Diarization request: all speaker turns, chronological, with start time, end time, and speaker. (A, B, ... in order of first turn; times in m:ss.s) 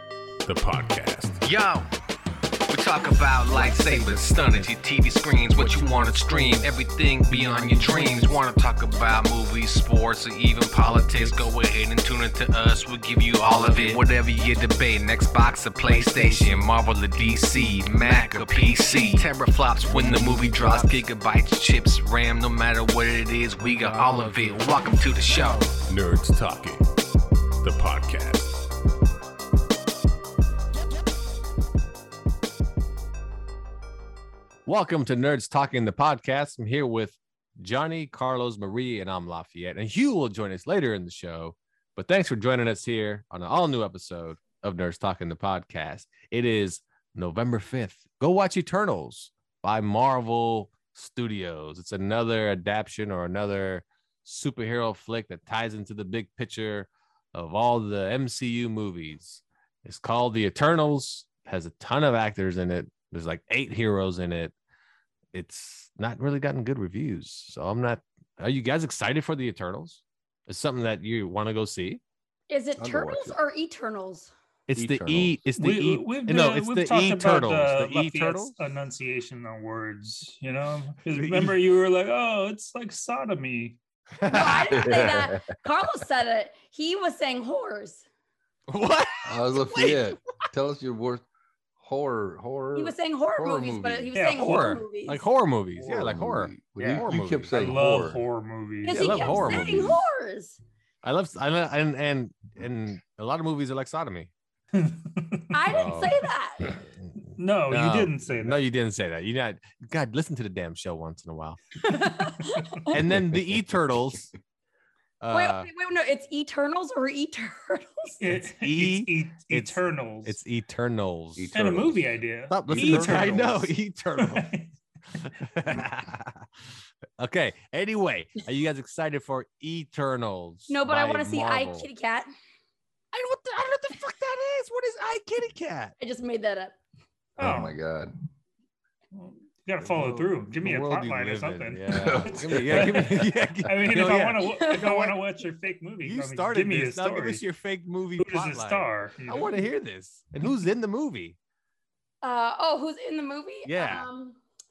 0:00.4-0:01.4 A
0:01.4-0:01.9 B
0:02.7-0:25.6 B
0:03.5-0:04.7 C
0:05.6-0:06.6 C
0:07.3-0:08.4 C
0:11.0-0:11.5 C
0:13.4-0:14.0 C
0:15.8-0:16.8 C
0:17.8-0:19.2 C
0:18.1-0:18.6 A
0:19.8-0:21.0 C
0:23.7-0:25.7 C
0:25.8-0:27.0 A
0:27.6-0:28.6 A
0:34.6-1:04.5 C
1:05.3-1:12.0 C
1:12.5-1:14.3 D
1:12.8-1:13.4 E
1:14.7-1:18.6 C
1:14.7-1:15.4 E
1:15.6-1:23.8 F
1:21.1-1:21.6 C
1:24.2-1:25.2 C
1:24.2-1:28.0 D
1:24.7-1:25.4 E
1:28.7-1:29.4 C
1:29.2-1:31.2 E
1:31.8-1:34.1 E
1:32.7-1:35.2 D
1:34.1-1:34.8 F
1:35.0-1:37.8 C
1:35.8-1:36.2 F
1:35.9-1:38.2 E
1:36.8-1:39.5 F
1:38.8-1:40.6 D
1:38.9-1:40.0 C
1:39.3-1:40.0 E
1:41.0-1:44.3 C
1:44.7-1:45.7 F
1:45.5-1:46.8 D
1:45.7-1:46.8 C
1:47.4-1:48.6 F
1:47.7-1:51.6 C
1:51.8-1:53.0 D
1:52.9-1:54.3 C
1:53.0-1:53.7 E
1:55.2-1:55.7 C
1:55.3-1:58.2 D
1:58.2-2:00.4 F
1:58.6-2:02.0 C
2:01.4-2:01.9 E
2:01.5-2:04.7 F
2:02.5-2:04.5 C
2:02.7-2:03.5 E
2:05.2-2:06.4 C
2:07.2-2:11.9 C
2:10.7-2:12.3 D
2:13.1-2:15.9 C
2:16.0-2:16.8 D
2:17.4-2:18.1 E
2:17.4-2:17.7 F
2:19.1-2:27.4 F
2:19.9-2:25.1 C
2:21.9-2:23.2 E
2:24.4-2:25.0 D
2:26.0-2:31.4 C
2:28.2-2:29.7 F
2:32.2-2:34.4 D
2:33.6-2:34.1 C